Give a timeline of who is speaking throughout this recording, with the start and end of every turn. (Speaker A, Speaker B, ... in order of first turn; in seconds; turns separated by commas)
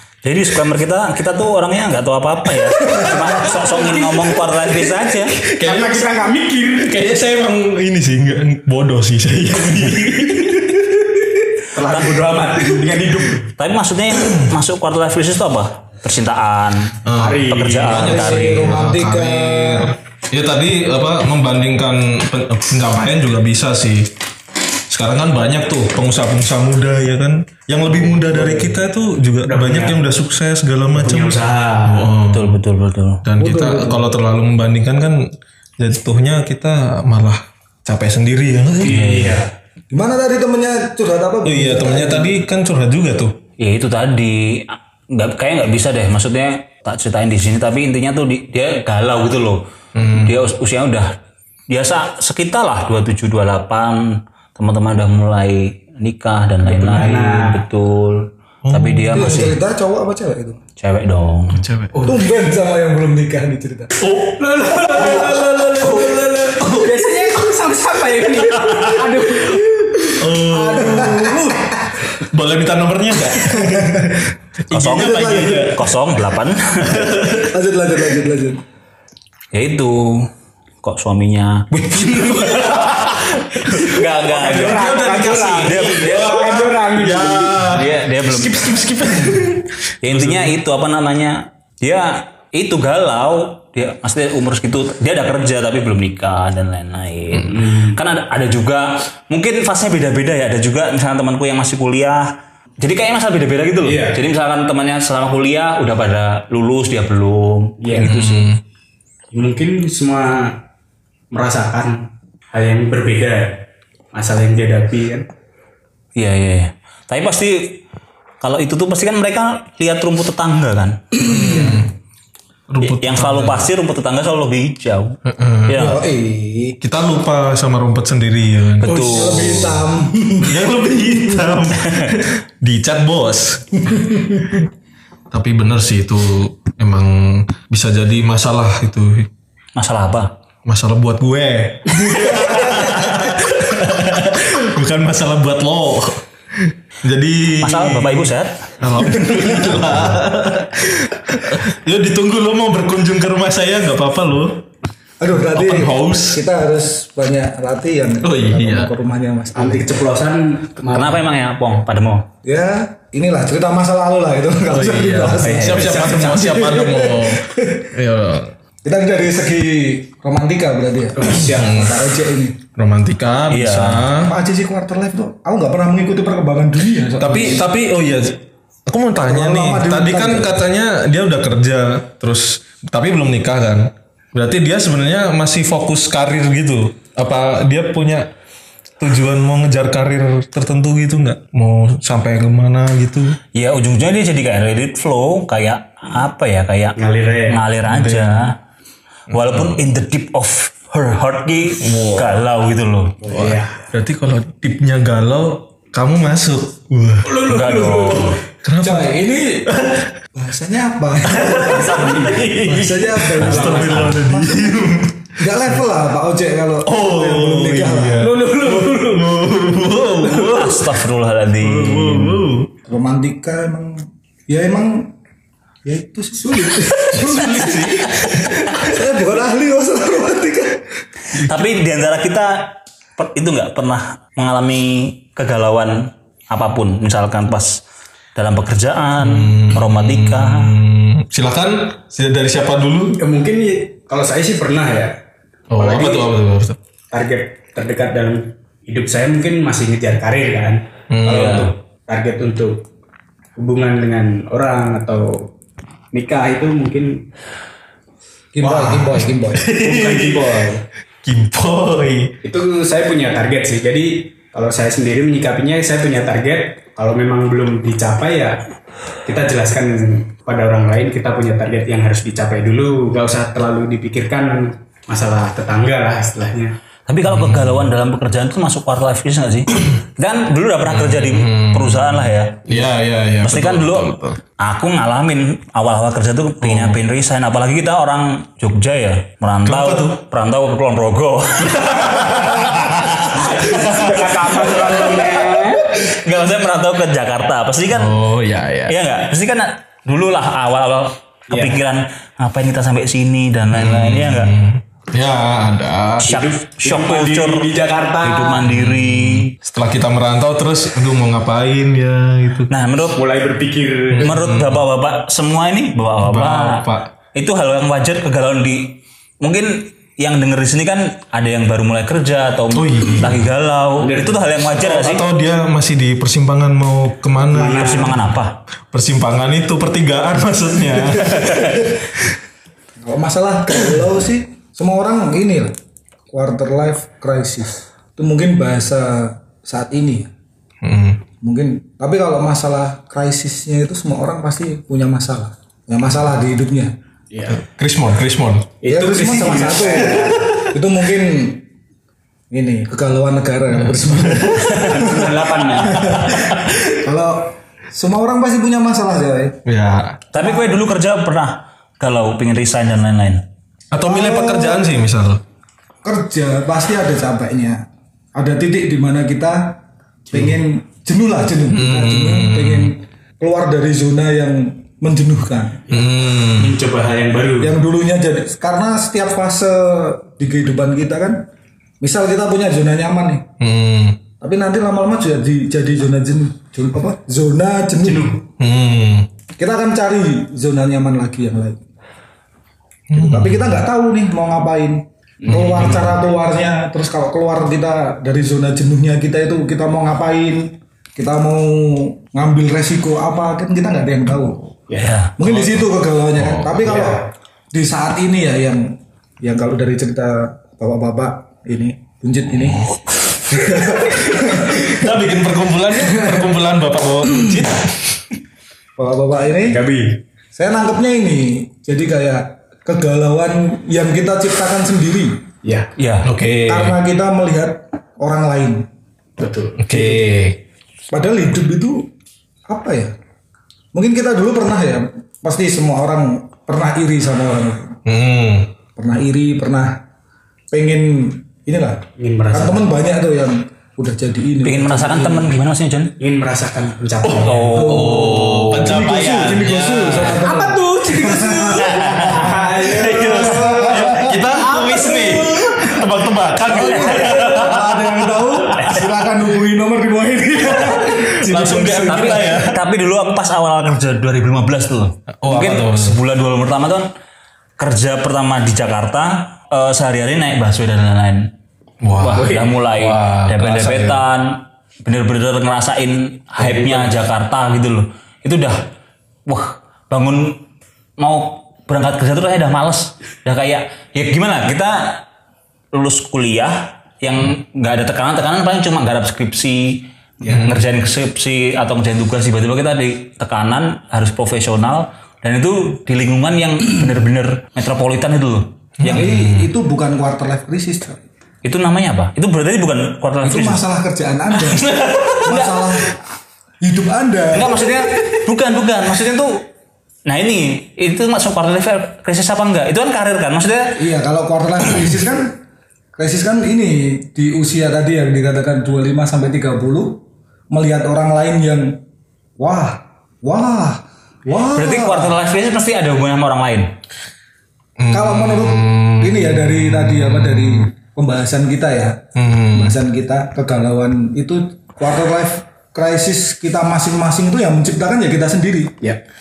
Speaker A: 0.2-5.3, Speaker B: 2.7-4.4, Speaker B: 5.4-6.1, Speaker C: 5.6-7.1, Speaker B: 6.8-10.8, Speaker C: 11.6-13.5, Speaker A: 11.8-12.2, Speaker A: 13.6-18.8, Speaker B: 17.0-24.1, Speaker C: 17.1-18.1, Speaker D: 17.9-19.9, Speaker B: 24.9-32.6, Speaker D: 28.3-28.7, Speaker C: 29.4-30.0, Speaker C: 30.9-32.1, Speaker A: 32.3-33.2, Speaker B: 33.2-39.4, Speaker D: 33.4-34.0, Speaker C: 38.8-39.5, Speaker A: 38.9-39.3, Speaker D: 39.9-42.4, Speaker B: 41.4-43.4, Speaker A: 43.6-49.6, Speaker B: 49.9-50.4, Speaker A: 50.1-51.1, Speaker A: 51.7-59.6, Speaker C: 56.6-57.6, Speaker B: 58.6-59.4, Speaker D: 59.1-60.6, Speaker A: 60.8-61.6, Speaker B: 61.5-62.1, Speaker D: 62.0-64.0, Speaker B: 64.0-66.9, Speaker C: 64.4-70.2, Speaker B: 70.1-71.4, Speaker D: 70.4-72.0, Speaker B: 72.1-76.0, Speaker D: 73.5-74.1, Speaker A: 74.7-77.2, Speaker D: 74.9-75.7, Speaker B: 76.8-77.5, Speaker D: 77.3-78.6, Speaker A: 79.5-80.3, Speaker A: 80.8-82.8, Speaker B: 81.9-90.5, Speaker A: 83.6-85.0, Speaker C: 84.2-87.7, Speaker A: 85.6-86.2, Speaker A: 87.7-88.8, Speaker A: 90.0-108.5, Speaker C: 97.5-98.0, Speaker C: 103.8-104.2, Speaker C: 107.8-108.1, Speaker B: 108.0-108.6, Speaker C: 109.3-110.6, Speaker C: 111.3-113.6, Speaker C: 114.1-115.3, Speaker A: 116.2-117.8, Speaker A: 118.4-121.2, Speaker B: 121.2-121.9, Speaker B: 122.7-123.7, Speaker A: 122.8-126.0, Speaker B: 125.2-126.0, Speaker D: 125.8-126.8, Speaker B: 126.8-129.8, Speaker A: 128.8-129.6, Speaker C: 128.9-129.3, Speaker D: 128.9-131.4, Speaker B: 130.4-134.6, Speaker A: 131.8-132.1, Speaker D: 133.8-134.5, Speaker B: 135.3-139.3, Speaker A: 139.8-140.3, Speaker B: 140.7-154.6, Speaker A: 147.6-148.7, Speaker D: 149.1-150.0, Speaker D: 155.2-160.0, Speaker B: 155.5-156.4, Speaker B: 158.2-158.9, Speaker C: 159.5-161.3, Speaker A: 160.9-162.2, Speaker D: 162.4-167.9, Speaker B: 164.7-168.5, Speaker C: 165.4-166.9, Speaker D: 168.8-172.6, Speaker C: 171.2-171.9, Speaker B: 171.5-171.9, Speaker B: 172.7-174.3, Speaker A: 173.5-174.1, Speaker D: 174.2-177.6, Speaker B: 177.2-188.3, Speaker D: 179.2-180.6, Speaker B: 189.0-193.4, Speaker A: 193.5-198.6, Speaker C: 196.9-197.6, Speaker B: 197.8-198.4, Speaker A: 199.3-203.2, Speaker B: 199.3-199.8, Speaker B: 201.8-202.3, Speaker C: 203.2-203.9, Speaker B: 203.3-207.4, Speaker C: 207.2-208.4, Speaker A: 207.4-208.4, Speaker B: 208.6-209.1, Speaker D: 208.8-209.7, Speaker B: 209.7-210.1, Speaker D: 210.3-218.4, Speaker B: 211.2-215.3, Speaker C: 211.7-212.4, Speaker A: 213.4-214.2, Speaker B: 216.8-221.0, Speaker C: 218.2-219.4, Speaker A: 220.2-222.5, Speaker B: 221.6-222.7, Speaker D: 222.8-225.1, Speaker D: 225.8-230.8, Speaker B: 226.7-228.7, Speaker A: 231.3-237.8, Speaker A: 238.3-240.7, Speaker B: 239.2-243.2, Speaker C: 243.2-245.2, Speaker B: 245.7-246.8, Speaker C: 245.8-246.3, Speaker C: 247.1-252.8, Speaker B: 251.1-251.7, Speaker C: 253.6-255.5, Speaker C: 256.1-257.2, Speaker D: 258.5-259.7, Speaker B: 258.6-262.3, Speaker C: 259.7-260.8, Speaker C: 262.4-268.6, Speaker C: 269.2-276.7, Speaker A: 277.1-282.9, Speaker B: 277.2-277.9, Speaker B: 280.9-284.4, Speaker A: 283.4-298.2, Speaker B: 286.6-287.0, Speaker B: 289.6-290.1, Speaker B: 291.7-294.5, Speaker C: 293.3-295.9, Speaker B: 297.9-298.9, Speaker A: 298.9-304.5, Speaker C: 301.5-301.8, Speaker B: 303.7-306.3, Speaker C: 306.2-308.7, Speaker A: 306.2-307.7, Speaker A: 308.2-309.5, Speaker B: 308.6-312.7, Speaker A: 312.7-313.2, Speaker C: 313.1-314.4, Speaker B: 314.1-314.8, Speaker A: 314.2-325.2, Speaker B: 316.2-317.1, Speaker B: 322.7-323.5, Speaker C: 324.0-324.6, Speaker B: 324.7-327.9, Speaker C: 327.5-328.2, Speaker A: 327.7-328.6, Speaker B: 328.9-332.2, Speaker D: 330.9-331.9, Speaker D: 333.0-335.7, Speaker D: 336.3-340.3, Speaker B: 340.8-341.2, Speaker D: 341.4-346.9, Speaker C: 347.3-347.6, Speaker B: 347.5-348.7, Speaker C: 348.8-350.5, Speaker D: 348.9-351.6, Speaker B: 350.1-350.6, Speaker D: 352.5-359.6, Speaker B: 353.9-354.9, Speaker C: 354.7-356.2, Speaker B: 359.6-360.2, Speaker A: 360.3-363.4, Speaker D: 360.4-360.8, Speaker B: 363.9-365.4, Speaker D: 364.0-364.9, Speaker D: 366.0-369.8, Speaker D: 370.3-375.8, Speaker B: 371.7-372.9, Speaker C: 375.9-377.8, Speaker B: 375.9-376.8, Speaker D: 377.6-381.4, Speaker D: 382.0-383.5, Speaker B: 383.6-384.2, Speaker D: 384.4-388.4, Speaker C: 388.0-388.4, Speaker B: 388.6-389.3, Speaker D: 389.6-391.8, Speaker B: 393.1-393.8, Speaker D: 393.1-404.6, Speaker C: 395.4-396.1, Speaker B: 395.5-396.2, Speaker C: 404.9-405.1, Speaker A: 405.0-405.3, Speaker D: 405.4-412.9, Speaker B: 405.4-406.9, Speaker C: 406.8-407.2, Speaker D: 413.4-415.1, Speaker B: 413.8-418.2, Speaker D: 415.9-416.5, Speaker D: 419.0-419.8, Speaker C: 419.6-420.2, Speaker D: 420.5-425.4, Speaker C: 425.6-425.9, Speaker A: 426.0-426.3, Speaker B: 426.2-426.9, Speaker D: 426.6-428.9, Speaker C: 429.4-430.2, Speaker B: 429.8-430.6, Speaker D: 431.1-432.1, Speaker D: 432.7-433.1, Speaker D: 433.9-438.0, Speaker B: 438.1-438.7, Speaker D: 438.9-440.0, Speaker D: 440.7-445.5, Speaker C: 442.2-442.9, Speaker A: 444.6-446.1, Speaker C: 446.2-447.8, Speaker B: 447.2-450.4, Speaker A: 447.4-448.2, Speaker D: 447.7-454.5, Speaker C: 450.1-455.9, Speaker A: 451.8-452.4, Speaker B: 452.4-458.8, Speaker D: 456.6-462.3, Speaker A: 456.9-457.5, Speaker B: 460.7-462.8, Speaker C: 461.4-462.4, Speaker A: 462.1-467.1, Speaker B: 465.4-466.2, Speaker A: 467.8-471.5, Speaker B: 472.0-474.2, Speaker A: 472.2-478.8, Speaker C: 472.3-472.7, Speaker A: 479.5-480.6, Speaker A: 481.2-485.2, Speaker A: 485.9-499.3, Speaker B: 490.4-490.8, Speaker B: 499.0-499.7, Speaker D: 499.1-501.2, Speaker A: 501.6-503.8, Speaker D: 503.4-506.2, Speaker A: 504.9-505.8, Speaker D: 506.8-508.1, Speaker A: 507.5-509.6, Speaker A: 510.3-514.0, Speaker D: 514.0-515.5, Speaker D: 516.1-522.0, Speaker D: 522.6-525.4, Speaker A: 524.7-526.9, Speaker B: 528.0-530.9, Speaker D: 528.1-538.9, Speaker B: 532.4-533.0